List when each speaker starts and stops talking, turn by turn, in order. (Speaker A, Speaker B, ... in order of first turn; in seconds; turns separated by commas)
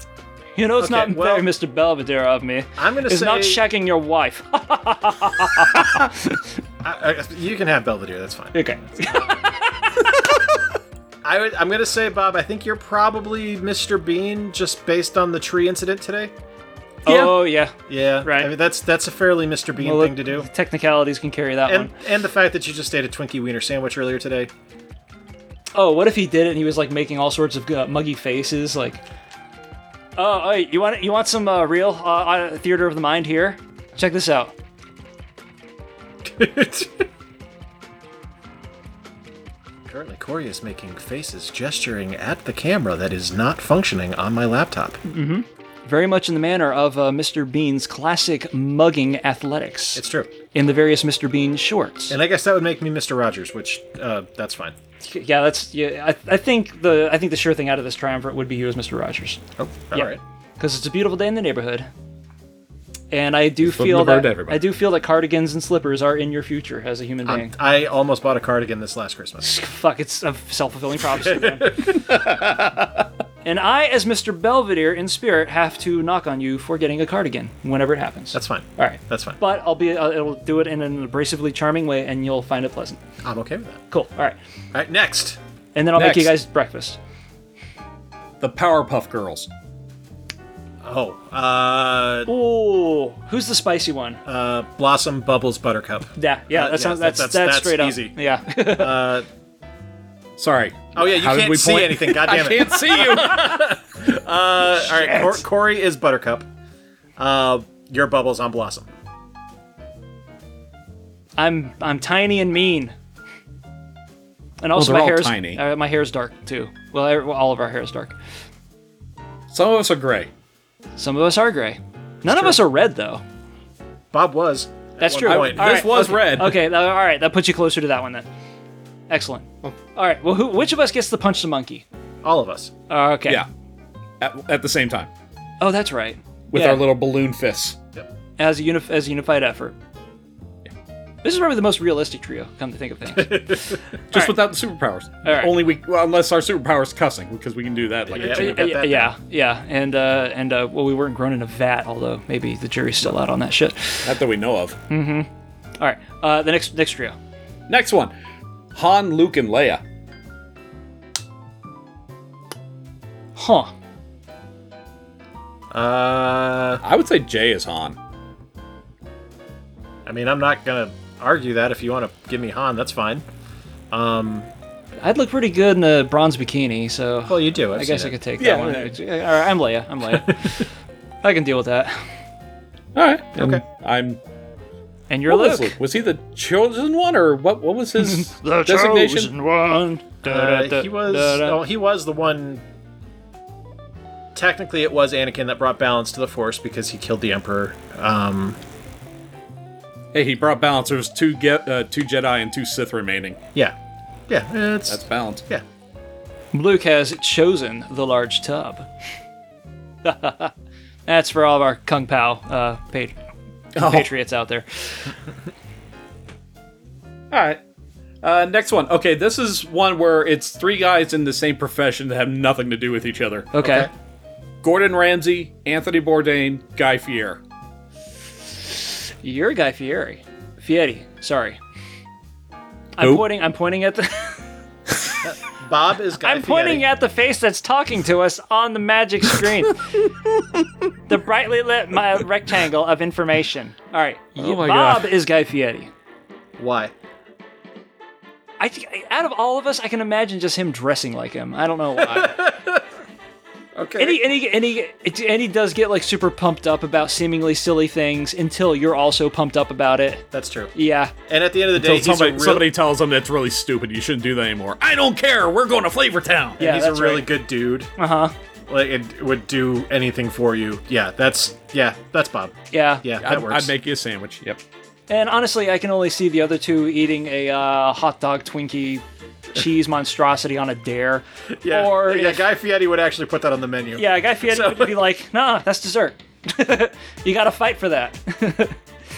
Speaker A: 0.6-6.4, Speaker B: 0.8-1.5, Speaker B: 2.8-3.6, Speaker B: 6.8-9.4, Speaker A: 8.5-10.0, Speaker B: 11.2-16.3, Speaker A: 17.1-18.5, Speaker B: 17.9-20.5, Speaker A: 19.8-21.9, Speaker B: 21.7-24.5, Speaker A: 25.7-29.0, Speaker A: 30.2-34.5, Speaker B: 36.2-37.0, Speaker B: 39.9-45.0, Speaker A: 45.0-52.1, Speaker B: 50.0-50.3, Speaker B: 52.1-54.8, Speaker A: 55.0-61.9, Speaker B: 59.6-60.2, Speaker A: 63.1-67.5, Speaker C: 63.6-64.6, Speaker B: 67.2-69.5, Speaker A: 69.4-71.8, Speaker B: 71.2-72.0, Speaker C: 72.0-73.0, Speaker A: 73.4-83.0, Speaker B: 78.3-79.4, Speaker B: 83.2-83.8, Speaker A: 83.9-84.4, Speaker B: 84.7-85.4, Speaker A: 85.7-87.0, Speaker C: 86.0-86.3, Speaker C: 88.4-89.5, Speaker B: 90.8-92.3, Speaker A: 92.3-94.2, Speaker B: 94.2-99.2, Speaker A: 96.2-99.1, Speaker C: 100.4-103.7, Speaker B: 100.9-106.5, Speaker A: 104.9-105.4, Speaker B: 107.2-108.9, Speaker A: 111.4-112.9, Speaker A: 114.6-118.1, Speaker C: 114.7-115.6, Speaker C: 119.5-120.3, Speaker A: 121.0-123.2, Speaker B: 122.3-122.5, Speaker B: 124.1-126.1, Speaker A: 125.0-128.3, Speaker C: 125.2-126.6, Speaker A: 129.1-131.8, Speaker B: 132.2-132.7, Speaker A: 132.9-133.4, Speaker C: 134.2-135.1, Speaker A: 135.6-136.8, Speaker C: 136.5-137.8, Speaker A: 138.4-139.7, Speaker A: 141.2-144.4, Speaker B: 143.2-143.8, Speaker C: 144.1-148.7, Speaker A: 145.2-145.5, Speaker B: 148.1-149.1, Speaker A: 148.2-154.2, Speaker C: 154.0-154.8, Speaker A: 154.9-155.3, Speaker A: 155.8-157.2, Speaker C: 157.7-158.1, Speaker C: 158.7-159.8, Speaker A: 163.3-163.7, Speaker B: 165.7-166.8, Speaker C: 166.8-168.0, Speaker B: 170.1-173.2, Speaker B: 173.9-174.5, Speaker A: 175.0-180.7, Speaker B: 177.3-178.1, Speaker C: 178.4-178.9, Speaker A: 181.2-182.0, Speaker C: 182.9-184.2, Speaker B: 183.4-183.6, Speaker A: 185.1-185.8, Speaker C: 185.3-189.3, Speaker A: 188.0-191.6, Speaker B: 190.2-192.6, Speaker B: 194.3-198.6, Speaker C: 200.1-203.4, Speaker B: 204.3-205.6, Speaker C: 204.9-205.4, Speaker A: 206.5-208.9, Speaker A: 210.0-210.5, Speaker A: 211.1-213.1, Speaker C: 213.7-214.1, Speaker A: 213.8-215.1, Speaker C: 217.3-217.6, Speaker C: 218.2-223.5, Speaker A: 223.5-223.9, Speaker B: 223.6-223.9, Speaker C: 224.6-227.4, Speaker A: 229.2-231.6, Speaker A: 232.9-234.4, Speaker C: 233.0-233.2, Speaker B: 235.2-236.8, Speaker A: 236.2-239.8, Speaker A: 241.1-245.9, Speaker C: 244.4-245.1, Speaker B: 246.6-246.9, Speaker A: 248.6-252.4, Speaker B: 252.0-252.8, Speaker B: 253.7-254.2, Speaker A: 254.0-261.1, Speaker B: 260.3-260.7, Speaker B: 261.3-262.7, Speaker C: 261.7-266.6, Speaker B: 266.6-267.9, Speaker A: 266.6-267.3, Speaker A: 268.0-268.3, Speaker B: 268.7-273.7, Speaker A: 272.7-273.0, Speaker C: 273.2-274.6, Speaker A: 275.1-282.4, Speaker B: 281.6-285.0, Speaker A: 283.9-288.8